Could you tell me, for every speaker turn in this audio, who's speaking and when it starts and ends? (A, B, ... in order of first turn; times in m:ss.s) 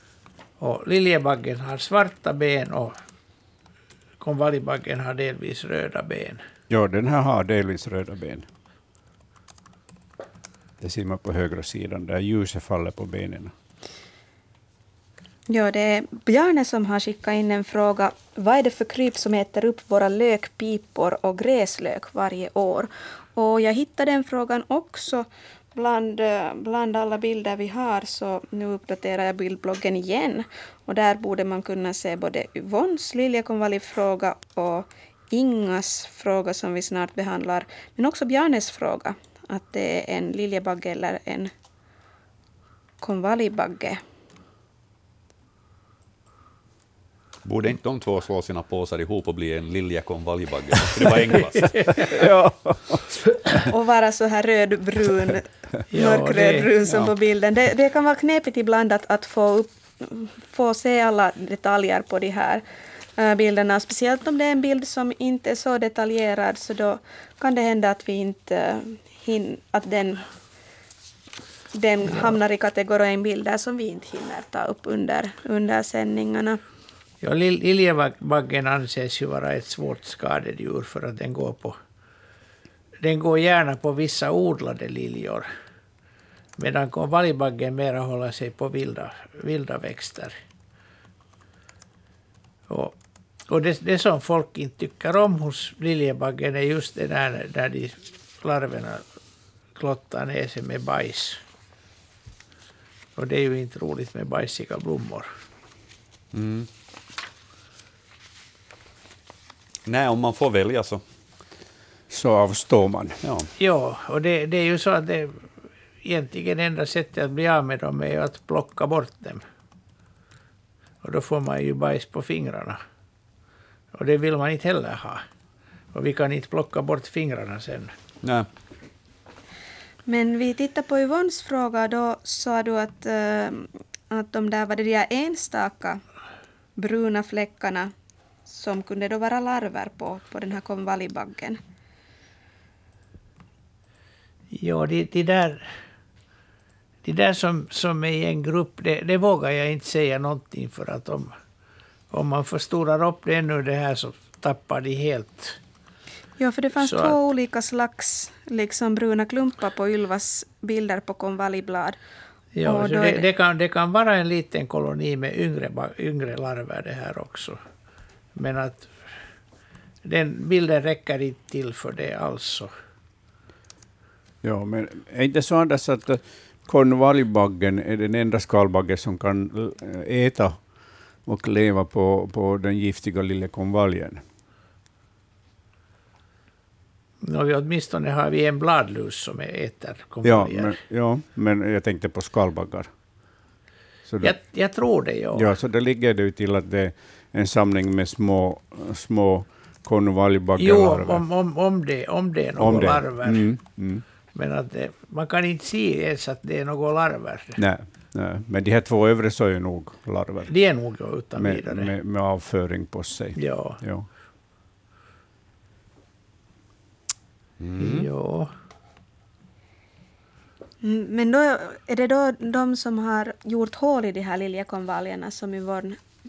0:00.6-0:03.0 A
0:04.2-0:06.4 A
0:06.7-0:08.5 B
0:10.8-0:13.5 B
0:15.5-0:41.5 C
0:43.0-0:44.0 C
0:47.4-0:51.8 D
0:51.9-0:53.0 B
0:53.7-1:02.6 C
0:55.9-0:56.7 A
1:03.2-1:10.2 C
1:11.7-1:16.6 C
1:17.2-1:21.8 A
1:23.0-1:25.5 A
1:26.6-1:30.3 A
1:32.7-1:33.0 A
1:33.5-1:39.0 A
1:39.8-1:41.4 A
1:43.2-1:45.3 A
1:46.3-1:46.7 D
1:49.8-1:51.0 D
1:52.1-1:53.2 B
1:53.2-1:53.5 D
1:53.6-1:55.5 A
1:56.0-1:59.4 A
2:01.0-2:02.8 A
2:03.9-2:05.2 A
2:05.9-2:07.9 A
2:08.2-2:08.5 D
2:10.1-2:16.0 C
2:16.8-2:17.9 C
2:18.5-2:21.6 C
2:24.5-2:25.7 A
2:27.0-2:31.3 A
2:32.1-2:35.6 A
2:36.4-2:42.0 C
2:36.8-2:37.2 A
2:42.5-2:47.6 A
2:42.6-2:43.3 C
2:48.3-2:48.9 A
2:50.0-2:52.7 A
2:54.4-3:00.6 B
3:01.2-3:04.2 B
3:07.2-3:10.8 A
3:10.2-3:12.9 B
3:14.1-3:14.3 B
3:14.2-3:15.5 A
3:15.3-3:21.2 B
3:20.6-3:23.6 A
3:22.6-3:24.0 B
3:24.3-3:27.6 A
3:27.6-3:30.5 B
3:30.5-3:31.9 A
3:31.3-3:34.1 B
3:33.4-3:33.8 A
3:37.6-3:38.1 D
3:37.8-3:38.5 A
3:40.8-3:46.0 C